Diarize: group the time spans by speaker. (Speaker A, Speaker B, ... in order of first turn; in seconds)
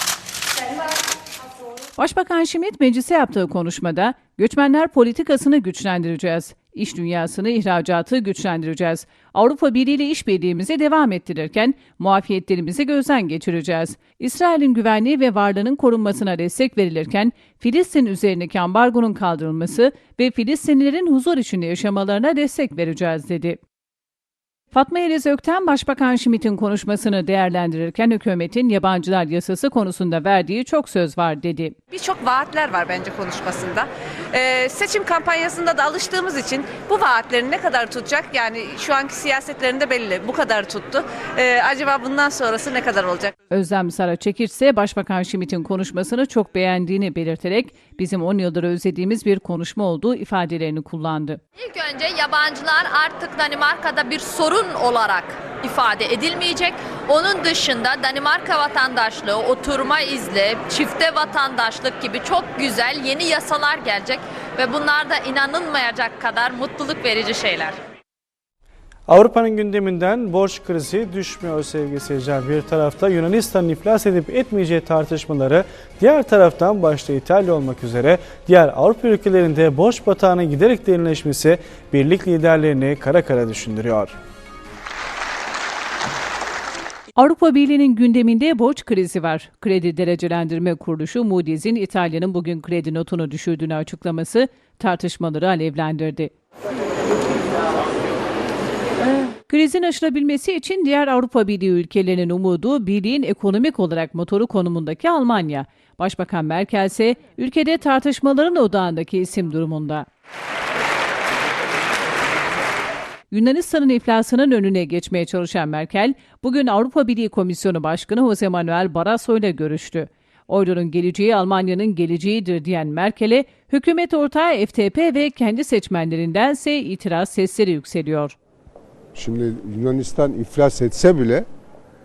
Speaker A: 2.0-23.6, 24.7-31.8, 43.5-51.4, 87.2-96.3, 99.0-110.1, 113.3-128.3
Speaker B: 31.9-43.3
Speaker C: 51.6-67.8
Speaker D: 69.1-84.1
Speaker E: 129.1-131.5